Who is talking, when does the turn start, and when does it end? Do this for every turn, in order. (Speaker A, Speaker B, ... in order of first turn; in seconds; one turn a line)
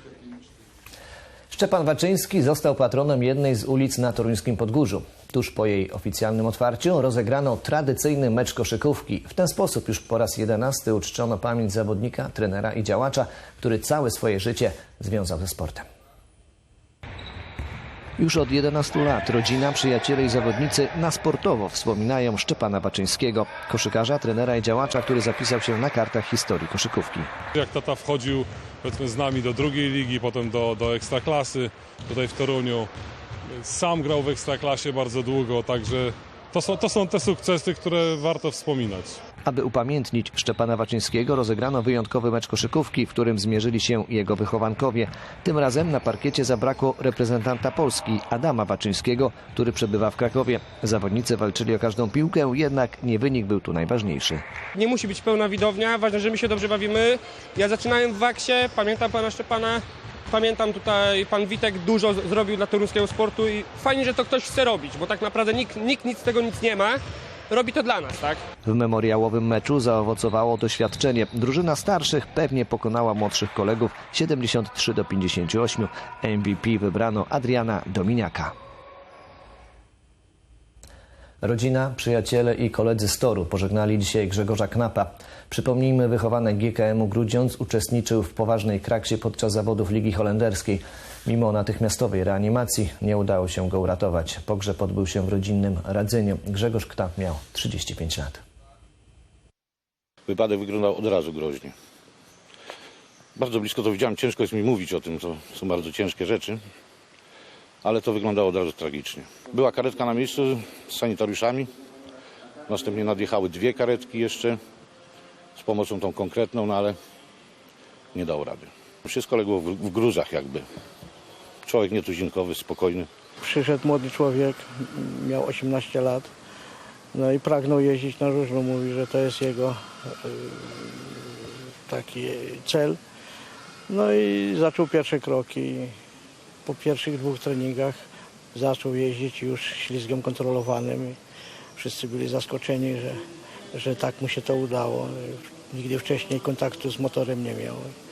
Speaker A: 1.5-15.8
Speaker A: 18.2-27.3
Speaker B: 27.5-32.9
Speaker B: 33.6-39.2
Speaker A: 39.5-54.4
Speaker C: 54.7-68.4
Speaker A: 68.6-78.5
Speaker A: 81.4-98.4
Speaker D: 100.3-101.7
Speaker D: 103.3-106.6
Speaker D: 107.8-111.7
Speaker D: 112.7-114.6
Speaker D: 115.5-117.0
Speaker D: 118.1-120.7
Speaker D: 121.7-123.1
Speaker E: 123.4-126.3
Speaker E: 127.1-133.0
Speaker E: 133.9-135.9
Speaker E: 136.6-138.0
Speaker E: 138.5-141.2
Speaker E: 141.8-143.2
Speaker E: 143.7-147.9